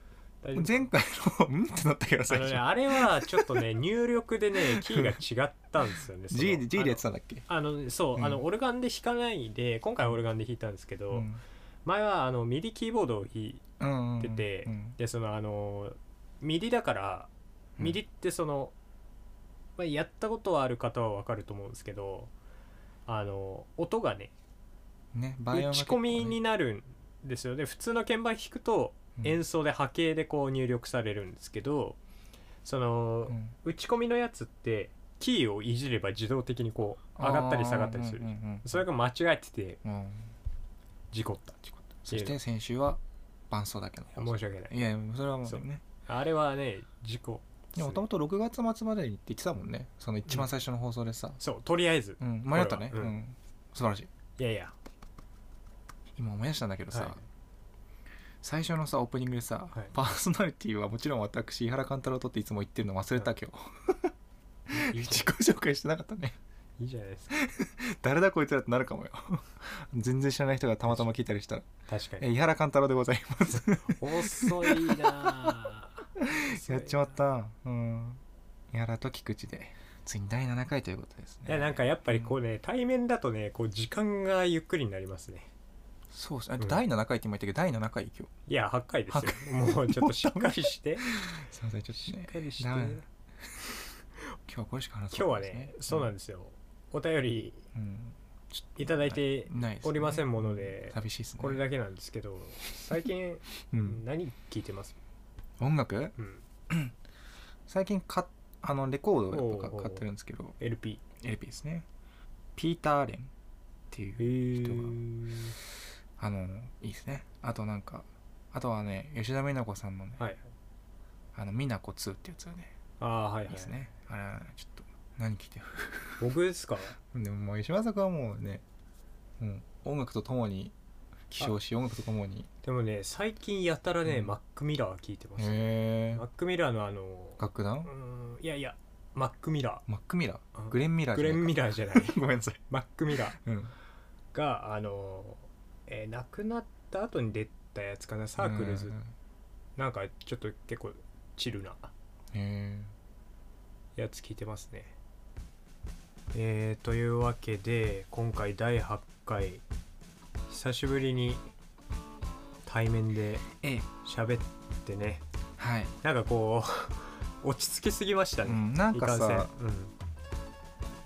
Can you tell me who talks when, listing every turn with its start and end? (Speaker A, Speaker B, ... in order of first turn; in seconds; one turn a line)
Speaker A: 0.4-0.9
Speaker B: 0.5-3.6
Speaker A: 2.3-11.3
Speaker B: 4.6-5.2
Speaker B: 6.3-7.4
Speaker B: 11.1-11.4
Speaker A: 11.8-13.6
Speaker B: 13.8-14.9
Speaker A: 14.2-18.7
Speaker A: 19.8-22.3
Speaker A: 23.1-24.3
Speaker B: 25.1-26.4
Speaker A: 25.5-32.0
Speaker A: 32.6-39.8
Speaker B: 37.2-38.8
Speaker B: 39.8-40.3
Speaker A: 41.1-42.4
Speaker B: 41.7-45.8
Speaker A: 44.1-44.9
Speaker A: 45.4-48.0
Speaker B: 47.8-51.4
Speaker A: 51.4-53.1
Speaker B: 52.2-54.1
Speaker A: 54.4-54.7
Speaker B: 56.1-57.2
Speaker A: 56.9-57.2
Speaker B: 58.4-64.1
Speaker B: 64.7-66.4
Speaker A: 64.7-65.3
Speaker A: 66.8-67.4
Speaker B: 67.3-71.7
Speaker A: 71.9-72.3
Speaker B: 72.2-75.6
Speaker A: 73.9-77.2
Speaker B: 76.2-78.2
Speaker B: 78.7-82.3
Speaker A: 81.5-85.5
Speaker B: 86.1-88.3
Speaker A: 88.5-91.1
Speaker B: 89.1-93.0
Speaker A: 92.0-93.0
Speaker B: 94.5-96.1
Speaker A: 95.1-97.7
Speaker B: 97.7-101.6
Speaker A: 98.8-105.0
Speaker B: 103.7-104.0
Speaker B: 105.6-106.2
Speaker A: 106.2-106.4
Speaker B: 106.7-107.0
Speaker B: 107.7-110.5
Speaker A: 109.3-110.0
Speaker A: 110.6-111.0
Speaker B: 111.2-111.9
Speaker B: 112.5-113.3
Speaker B: 113.9-115.0
Speaker A: 114.2-115.5
Speaker B: 116.2-120.2
Speaker A: 120.2-120.5
Speaker B: 121.3-122.7
Speaker A: 123.0-123.8
Speaker B: 123.5-126.2
Speaker A: 126.2-127.0
Speaker B: 127.1-128.6
Speaker B: 129.4-130.7
Speaker B: 131.3-132.5
Speaker A: 132.6-139.8
Speaker B: 134.0-134.3
Speaker B: 135.4-136.2
Speaker B: 137.4-137.9
Speaker B: 139.9-142.6
Speaker A: 140.5-143.4
Speaker B: 143.4-143.7
Speaker A: 144.3-148.9
Speaker B: 148.4-149.1
Speaker A: 149.8-151.9
Speaker B: 152.3-152.9
Speaker A: 153.9-154.9
Speaker A: 156.3-159.6
Speaker A: 160.5-161.4
Speaker A: 162.7-163.5
Speaker B: 163.6-163.9
Speaker A: 164.0-165.2
Speaker B: 165.6-165.9
Speaker A: 166.0-169.9
Speaker B: 168.4-169.5